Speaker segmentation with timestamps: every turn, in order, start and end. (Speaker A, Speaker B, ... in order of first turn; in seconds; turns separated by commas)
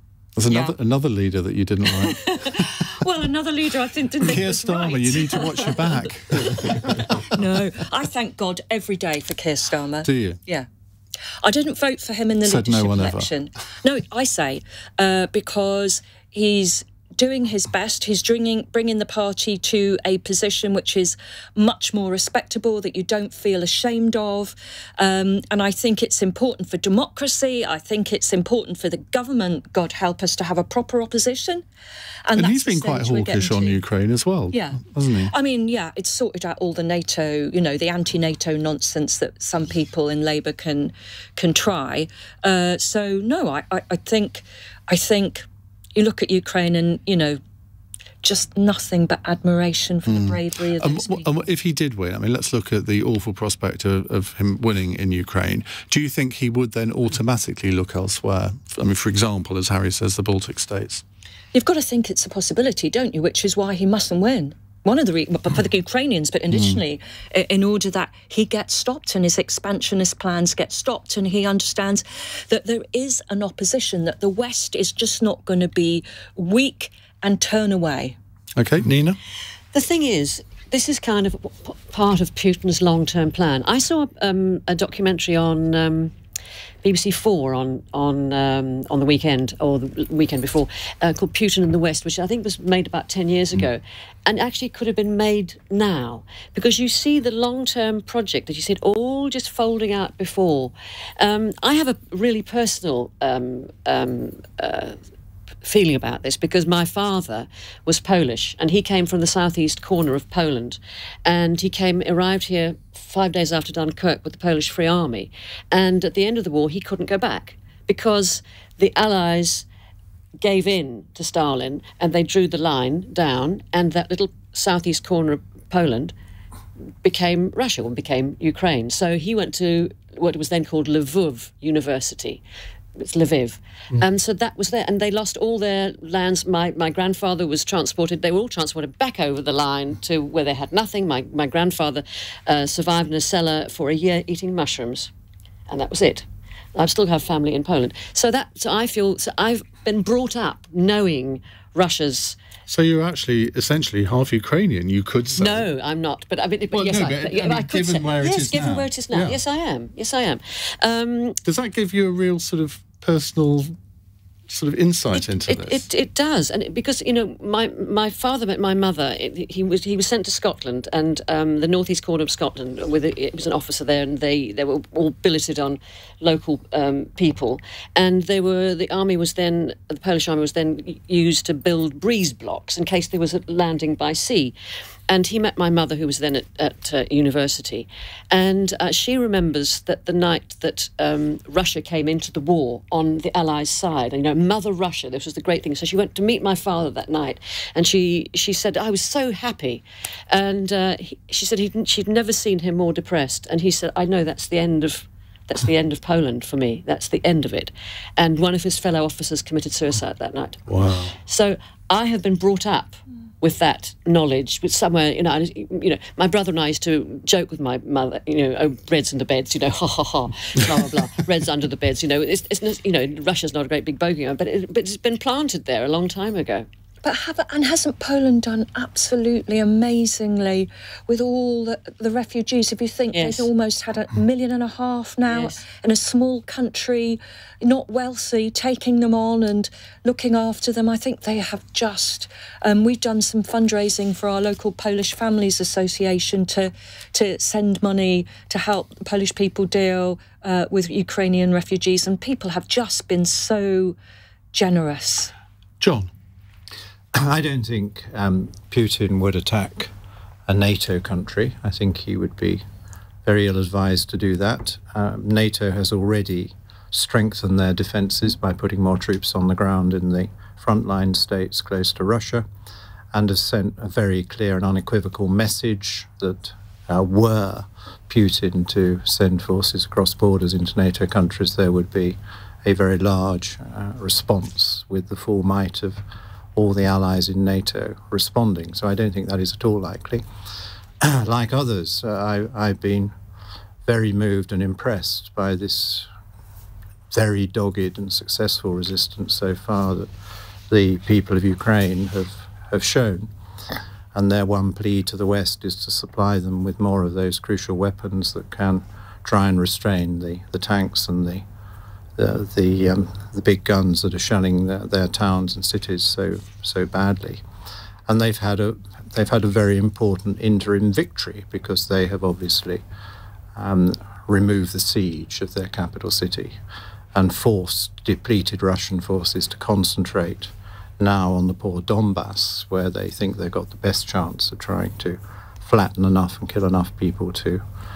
Speaker A: 0.4-2.2, Speaker B: 0.5-0.7, Speaker B: 1.9-10.7, Speaker A: 4.2-7.2, Speaker A: 10.0-10.4, Speaker B: 11.4-31.6, Speaker A: 12.4-13.3, Speaker B: 32.3-33.8, Speaker A: 32.4-35.3, Speaker B: 34.5-45.5, Speaker B: 46.0-47.4, Speaker B: 48.2-51.4, Speaker A: 50.1-61.0, Speaker B: 61.5-78.2, Speaker A: 66.5-66.8, Speaker A: 78.6-79.2, Speaker C: 79.7-86.1, Speaker C: 86.8-105.0, Speaker C: 105.6-119.7, Speaker C: 120.4-126.1, Speaker C: 127.0-132.4, Speaker C: 133.0-145.1, Speaker C: 145.7-152.4, Speaker A: 152.7-155.7, Speaker C: 155.4-161.4, Speaker A: 156.7-159.4, Speaker A: 161.4-163.8, Speaker A: 164.5-165.8, Speaker C: 165.1-184.5, Speaker C: 185.1-210.6, Speaker A: 210.7-211.2, Speaker C: 211.3-226.7, Speaker B: 227.0-254.0, Speaker C: 233.1-233.5, Speaker C: 235.3-235.6, Speaker B: 254.5-255.3, Speaker A: 255.8-256.1, Speaker D: 257.1-259.9, Speaker D: 260.5-262.6, Speaker D: 263.2-272.5, Speaker D: 273.1-286.0, Speaker D: 286.6-290.2, Speaker D: 291.0-293.1, Speaker D: 293.9-296.1, Speaker D: 297.1-300.1, Speaker D: 300.7-303.3, Speaker D: 304.1-311.4, Speaker D: 312.2-317.4, Speaker D: 318.1-322.8, Speaker D: 323.6-326.6, Speaker D: 327.1-337.6